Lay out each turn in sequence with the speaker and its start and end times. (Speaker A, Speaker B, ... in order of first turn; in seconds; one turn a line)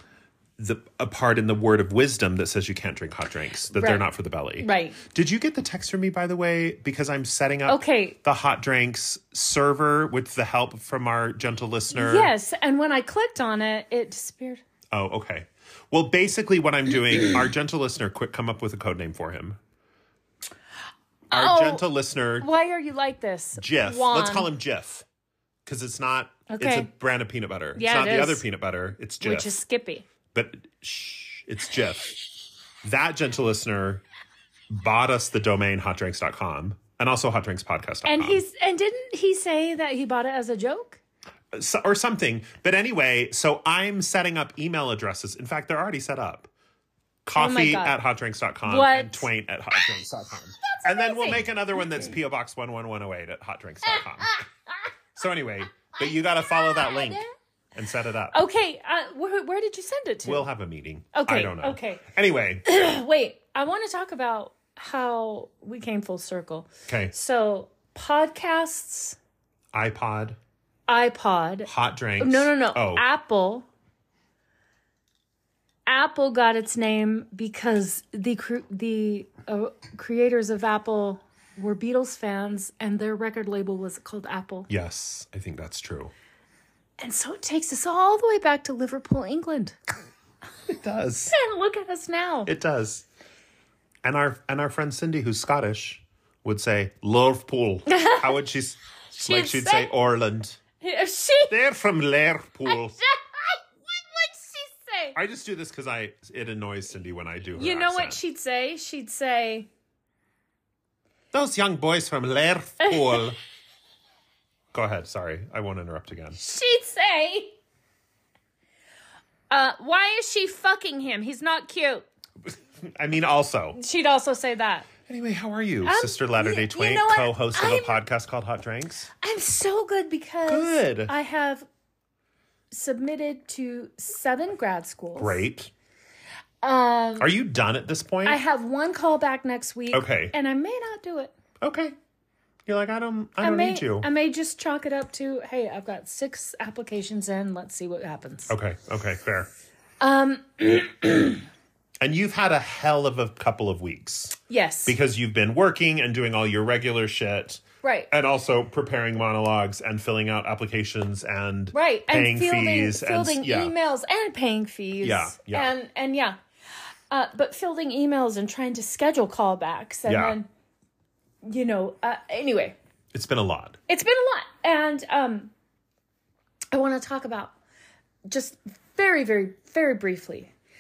Speaker A: 0.6-12.3
Speaker B: 3.7-4.0
Speaker B: 4.6-5.0
Speaker B: 7.7-8.2
Speaker B: 11.9-14.6
Speaker A: 14.9-19.6
Speaker B: 21.3-21.8
Speaker A: 21.3-22.5
Speaker B: 22.4-24.5
Speaker A: 23.6-25.1
Speaker A: 25.6-29.6
Speaker B: 26.5-26.9
Speaker B: 27.8-28.4
Speaker B: 29.2-30.1
Speaker A: 30.3-32.1
Speaker A: 32.8-34.0
Speaker A: 34.7-38.4
Speaker B: 38.0-41.0
Speaker A: 41.5-46.5
Speaker A: 47.2-54.4
Speaker B: 47.4-48.0
Speaker B: 48.6-49.3
Speaker B: 50.6-51.4
Speaker A: 55.1-58.4
Speaker B: 56.6-57.3
Speaker B: 58.3-60.5
Speaker A: 60.2-62.7
Speaker B: 61.1-62.0
Speaker B: 62.6-69.2
Speaker A: 66.9-67.1
Speaker A: 69.7-70.4
Speaker B: 70.9-73.7
Speaker A: 71.6-73.0
Speaker B: 75.9-84.7
Speaker A: 84.7-86.1
Speaker B: 87.0-89.8
Speaker A: 90.7-91.3
Speaker B: 91.3-92.5
Speaker A: 92.5-93.0
Speaker A: 94.0-100.6
Speaker B: 97.9-98.3
Speaker B: 99.2-99.9
Speaker B: 100.8-101.5
Speaker A: 101.5-103.0
Speaker B: 102.7-105.2
Speaker A: 105.1-108.2
Speaker B: 107.5-109.7
Speaker A: 111.3-113.4
Speaker B: 112.9-113.2
Speaker A: 114.7-116.4
Speaker B: 116.3-117.5
Speaker B: 119.5-122.1
Speaker A: 122.8-123.8
Speaker B: 123.7-124.9
Speaker A: 125.0-129.1
Speaker B: 125.8-128.0
Speaker B: 129.2-131.7
Speaker A: 130.4-131.1
Speaker B: 132.7-135.4
Speaker A: 135.2-135.7
Speaker B: 136.6-137.3
Speaker A: 137.2-138.4
Speaker B: 138.2-141.3
Speaker A: 139.9-140.3
Speaker A: 141.6-141.9
Speaker A: 142.7-144.1
Speaker B: 143.4-148.5
Speaker A: 148.5-149.5
Speaker B: 150.0-151.4
Speaker A: 152.0-163.7
Speaker B: 154.5-154.9
Speaker B: 157.8-158.1
Speaker B: 161.7-166.4
Speaker A: 165.0-165.7
Speaker B: 167.1-170.5
Speaker A: 170.1-170.4
Speaker B: 171.4-172.8
Speaker A: 173.1-173.8
Speaker B: 173.9-175.5
Speaker B: 176.7-177.5
Speaker B: 178.3-180.5